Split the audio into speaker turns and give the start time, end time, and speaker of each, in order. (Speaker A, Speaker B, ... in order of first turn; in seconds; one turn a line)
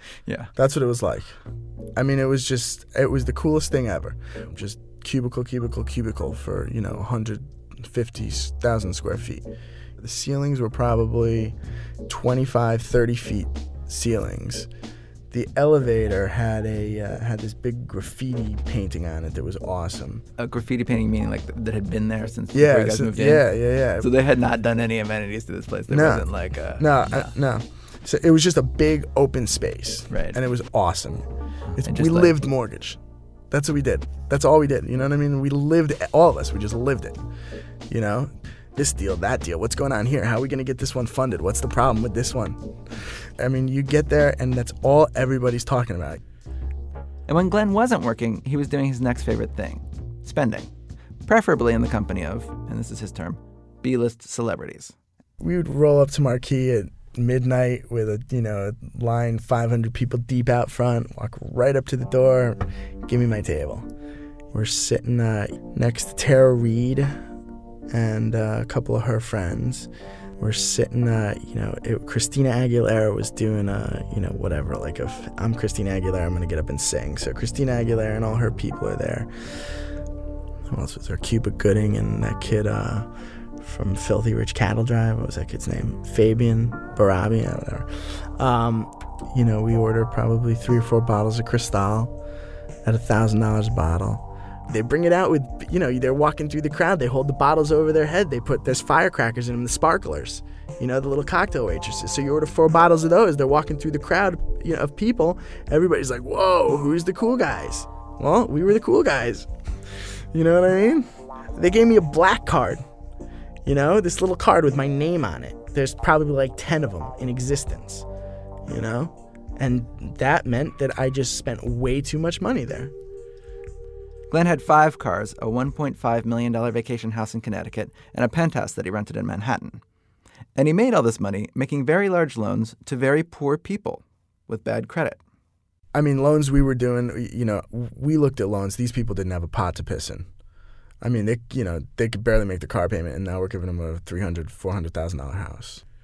Speaker A: 0.5-1.4
Speaker A: 1.9-9.4
Speaker A: 10.0-11.5
Speaker A: 12.1-14.7
Speaker A: 15.3-20.2
Speaker B: 20.4-23.4
Speaker A: 22.5-24.1
Speaker B: 24.0-26.9
Speaker A: 25.9-31.2
Speaker B: 30.1-30.4
Speaker B: 31.8-32.4
Speaker A: 31.8-33.0
Speaker A: 33.5-37.1
Speaker A: 37.9-42.8
Speaker A: 43.4-46.2
Speaker B: 47.3-50.7
Speaker B: 51.2-54.9
Speaker A: 55.4-63.9
Speaker A: 64.5-67.2
Speaker A: 67.9-79.3
Speaker A: 80.7-83.1
Speaker A: 83.6-92.2
Speaker A: 92.8-109.5
Speaker A: 110.3-112.8
Speaker A: 113.6-118.0
Speaker A: 118.7-122.9
Speaker B: 124.3-129.8
Speaker B: 130.5-135.2
Speaker A: 135.9-140.3
Speaker A: 141.0-145.8